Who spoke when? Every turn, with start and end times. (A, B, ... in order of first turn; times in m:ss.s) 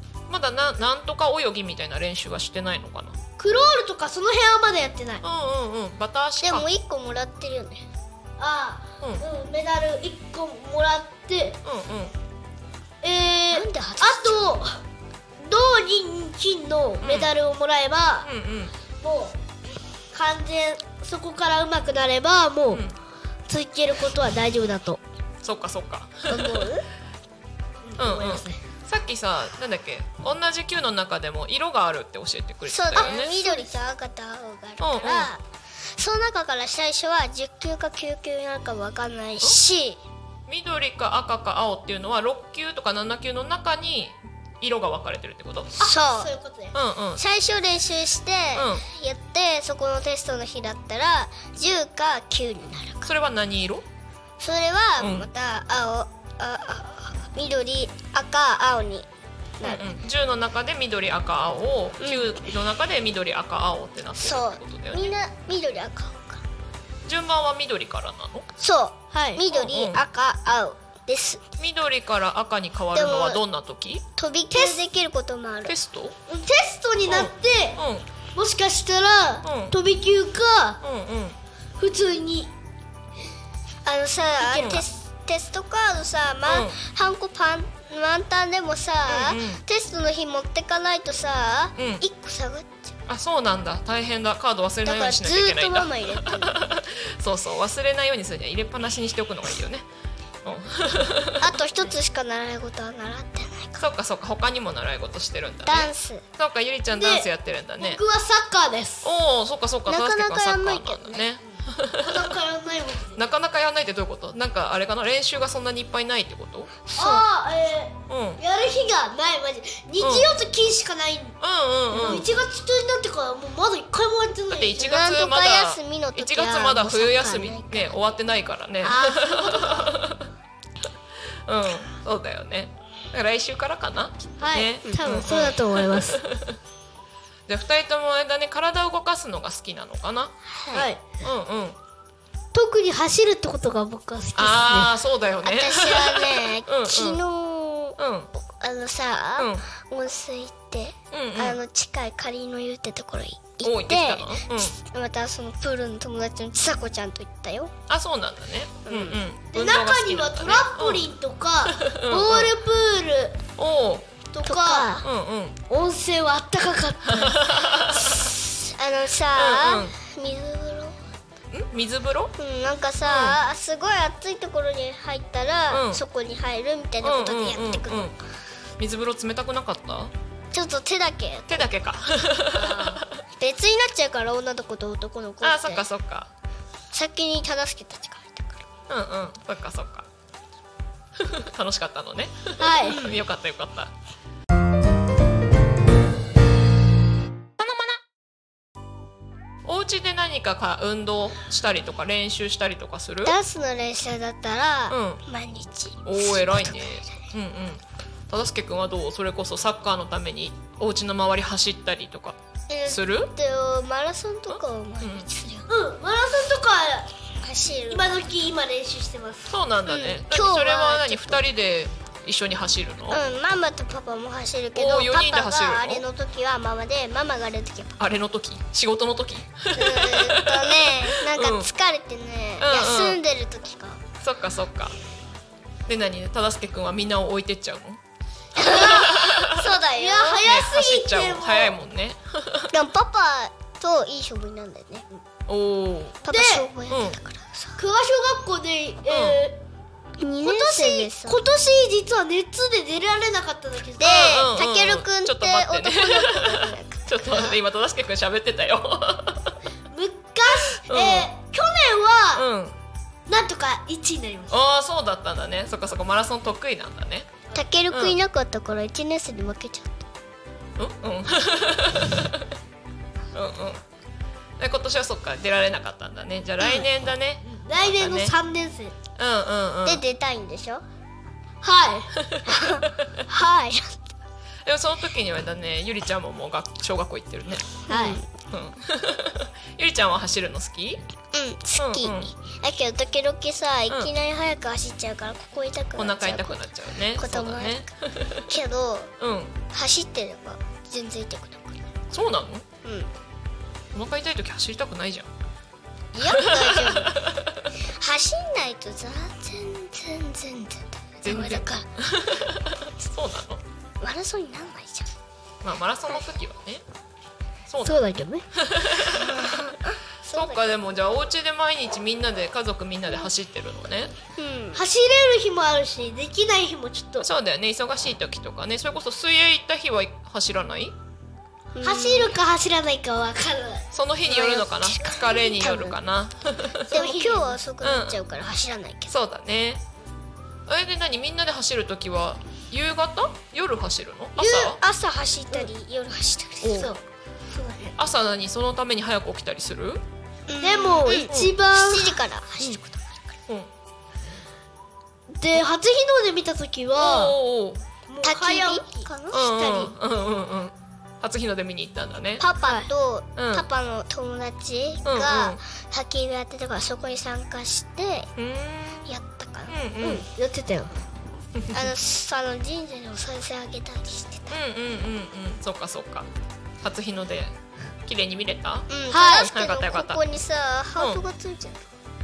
0:00.3-0:03.2 A
0:03.4-0:05.2 B
0:05.2-0:06.7 A
0:06.4-0:07.8 C
0:08.4-0:11.6 B
0:11.6-0:12.1 A
0:13.0-0:14.7 B
0:13.5-0:14.5 C
0:15.4-0:18.3 B
0:17.0-0:17.3 A
0:18.2-0:18.7 A
0:19.0-0:19.4 B
0:20.1-0:22.8 B
0:22.7-0:23.0 A
0:23.5-0:25.0 B
0:25.4-0:26.7 A
0:26.3-0:26.8 C
0:27.8-0:28.6 B
0:28.0-0:33.3 A
0:32.7-0:35.4 C
0:33.0-0:33.7 B
0:34.8-0:35.3 A
0:35.9-0:40.0 C
0:40.5-0:45.8 A
0:45.8-0:46.8 B
0:45.8-0:46.3 C
0:46.7-0:47.2 A
0:47.2-0:53.1 C
0:48.5-0:48.8 A
0:53.0-0:53.8 A
0:54.4-0:59.1 C
0:55.0-0:55.3 A
0:59.6-0:59.8 C
0:59.6-1:05.1 A
1:02.0-1:02.4 C
1:04.2-1:06.4 C
1:07.0-1:08.5 A
1:08.6-1:11.4 C
1:09.1-1:09.4 B
1:09.5-1:10.0 A
1:11.6-1:14.0 A
1:12.9-1:13.4 C
1:14.2-1:15.8 C
1:14.5-1:14.8 B
1:15.6-1:16.2 A
1:16.3-1:17.8 B
1:17.1-1:18.0 A
1:18.3-1:20.8 B
1:19.4-1:19.8 A
1:20.8-1:21.4 A
1:21.8-1:22.5 B
1:23.8-1:32.9 C
1:24.5-1:24.8 B
1:26.4-1:26.8 A
1:29.1-1:29.6 A
1:31.8-1:32.0 A
1:33.1-1:39.8 A
1:34.8-1:36.6 C
1:40.4-1:41.6 A
1:41.4-1:43.8 C
1:43.8-1:48.0 A
1:45.6-1:46.2 C
1:46.9-1:47.3 B
1:47.8-1:49.1 B
1:49.0-1:52.3 A
1:49.9-1:51.3 C
1:51.5-1:53.2 B
1:53.2-1:56.7 A
1:56.8-1:57.2 C
1:57.0-2:01.4 B
1:58.1-1:58.4 A
2:00.0-2:00.4 A
2:01.4-2:02.3 A
2:01.9-2:04.9 B
2:04.5-2:10.3 A
2:04.8-2:08.0 C
2:08.8-2:10.0 B
2:11.4-2:16.6 A
2:14.4-2:16.2 B
2:17.5-2:20.3 A
2:20.5-2:20.9 C
2:20.7-2:21.0 B
2:21.2-2:21.8 A
2:22.5-2:24.9 B
2:24.4-2:27.2 A
2:25.4-2:28.0 C
2:28.0-2:28.3 A
2:28.5-2:37.7 C
2:29.4-2:29.6 A
2:31.1-2:31.6 A
2:33.6-2:34.7 A
2:37.9-2:41.1 A
2:38.8-2:39.2 C
2:39.5-2:43.4 B
2:41.6-2:42.5 A
2:43.6-2:44.1 A
2:44.3-2:44.9 B
2:44.4-2:45.0 C
2:45.0-2:45.6 A
2:45.7-2:47.5 B
2:47.0-2:48.3 A
2:48.2-2:51.0 C
2:49.3-2:50.0 A
2:51.5-2:52.3 A
2:52.4-2:58.1 C
2:53.0-2:53.4 A
2:55.7-2:56.0 A
2:57.0-2:58.2 A
2:58.8-3:00.1 A
3:00.5-3:01.7 C
3:01.5-3:03.2 A
3:02.5-3:03.0 B
3:03.4-3:05.8 C
3:05.4-3:06.3 A
3:06.9-3:08.6 C
3:08.9-3:10.0 A
3:11.2-3:13.9 A
3:12.6-3:13.1 B
3:17.6-3:18.0 A
3:19.6-3:23.4 A
3:23.2-3:26.8 C
3:24.9-3:25.2 A
3:26.0-3:33.3 A
3:32.7-3:35.7 C
3:34.5-3:35.3 A
3:35.7-3:37.1 B
3:37.4-3:38.1 C
3:37.9-3:39.6 B
3:39.5-3:43.2 A
3:39.9-3:41.4 C
3:43.1-3:48.0 C
3:44.7-3:46.0 A
3:48.0-3:51.7 A
3:49.7-3:54.0 C
3:52.6-3:53.2 A
3:54.2-3:54.9 A
3:55.8-3:58.0 A
3:58.6-4:00.4 C
3:58.6-4:01.8 B
3:58.6-3:59.6 A
4:00.4-4:02.7 A
4:02.7-4:05.0 C
4:05.5-4:06.2 A
4:06.2-4:07.8 C
4:06.3-4:06.7 B
4:06.9-4:07.2 A
4:07.8-4:09.6 B
4:09.1-4:09.4 A
4:10.2-4:11.4 C
4:10.4-4:14.4 B
4:14.0-4:17.6 C
4:14.0-4:19.6 A
4:19.9-4:22.4 B
4:20.5-4:21.3 A
4:22.3-4:22.8 A
4:23.3-4:24.6 B
4:24.5-4:27.3 A
4:27.5-4:30.1 C
4:27.9-4:28.2 A
4:30.8-4:32.5 A
4:33.3-4:33.8 A
4:34.6-4:38.3 A
4:36.6-4:36.8 B
4:37.4-4:38.9 B
4:39.2-4:40.0 A
4:39.8-4:40.8 C
4:41.6-4:42.1 B
4:42.2-4:43.1 A
4:42.4-4:44.0 C
4:44.6-4:47.8 A
4:47.9-4:48.2 B
4:47.9-4:48.2 C
4:48.5-4:51.0 A
4:51.3-4:57.9 C
4:51.8-4:52.3 A
4:56.0-4:58.5 A
4:58.5-4:59.1 C
4:59.2-4:59.6 A
4:59.7-5:01.9 C
5:02.1-5:02.6 A
5:02.8-5:03.1 C
5:03.9-5:05.3 A
5:06.1-5:07.2 C
5:06.3-5:07.5 A
5:07.8-5:11.8 C
5:11.2-5:13.6 A
5:14.0-5:15.1 C
5:15.6-5:16.8 A
5:17.7-5:18.0 A
5:17.8-5:18.4 B
5:18.5-5:19.8 A
5:19.0-5:20.7 C
5:20.3-5:24.1 A
5:24.4-5:24.8 C
5:24.7-5:27.3 B
5:27.2-5:30.9 A
5:31.7-5:32.3 C
5:31.8-5:33.9 B
5:33.9-5:37.1 A
5:34.3-5:36.0 C
5:36.9-5:37.5 B
5:36.9-5:39.1 C
5:37.8-5:38.2 A
5:39.1-5:39.8 A
5:40.7-5:44.8 A
5:44.4-5:44.8 B
5:44.6-5:46.9 C
5:46.6-5:46.9 A
5:46.7-5:47.0 B
5:47.5-5:48.0 B
5:48.0-5:50.0 A
5:50.5-5:53.3 C
5:50.6-5:52.8 B
5:55.3-5:57.4 B
5:57.0-5:57.8 A
5:58.1-5:59.9 B
5:58.2-5:59.4 C
5:59.3-6:02.4 A
6:02.4-6:08.3 C
6:03.4-6:03.6 A
6:05.0-6:05.6 A
6:08.4-6:09.1 A
6:09.0-6:09.8 C
6:09.7-6:10.2 A
6:10.0-6:10.9 B
6:11.5-6:11.9 A
6:11.7-6:14.6 C
6:14.5-6:16.3 A
6:16.8-6:17.5 A
6:18.0-6:18.9 A
6:18.9-6:21.9 C
6:19.1-6:19.5 B
6:19.4-6:20.2 A
6:21.0-6:21.2 A